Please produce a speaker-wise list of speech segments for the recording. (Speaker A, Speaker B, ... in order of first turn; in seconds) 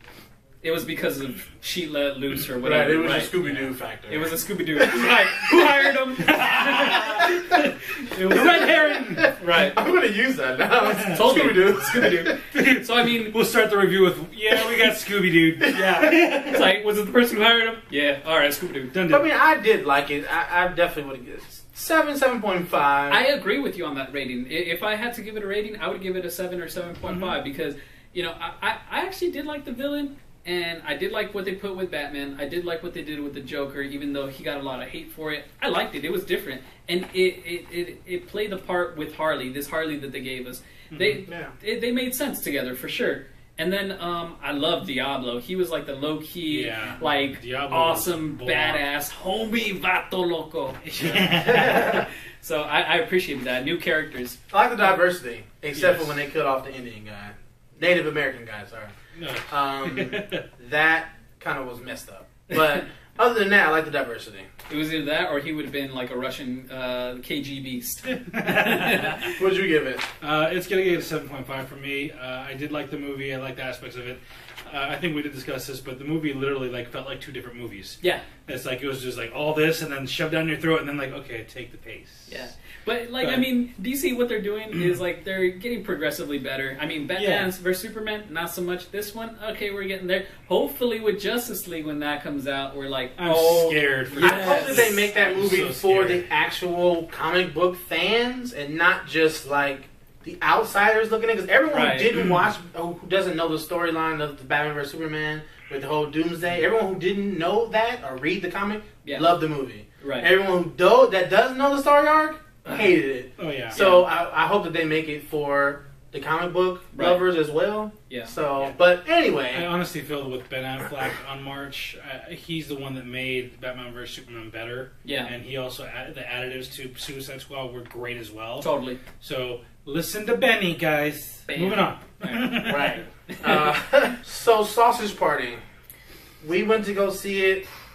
Speaker A: 0.6-3.3, 4.1-9.8, 11.1-13.3, 16.0-18.9, 23.1-54.4, 64.7-69.4, 82.3-95.3, 101.7-102.1, 109.0-109.3, 110.0-110.3, 113.7-114.1, 116.9-117.2, 118.1-118.7, 125.0-125.3, 128.6-129.0, 131.5-133.8
Speaker B: 2.6-5.4, 6.9-7.6, 8.3-12.4, 15.6-16.4, 19.1-23.2, 41.3-41.5, 51.6-52.0, 54.5-58.9, 59.5-64.5, 69.3-70.1, 94.2-119.7, 132.6-135.6, 136.4-137.7
Speaker C: 3.4-3.7, 6.2-7.3, 8.1-9.3, 11.0-11.5, 12.5-16.8, 18.9-19.3, 27.0-27.4, 40.9-41.2, 46.5-48.8, 50.8-52.1, 55.8-56.1, 59.2-60.4, 68.2-69.3, 70.2-82.5, 83.2-83.5, 84.7-85.0, 87.2-87.5, 93.2-96.2, 102.1-102.5, 113.4-113.8, 119.5-133.0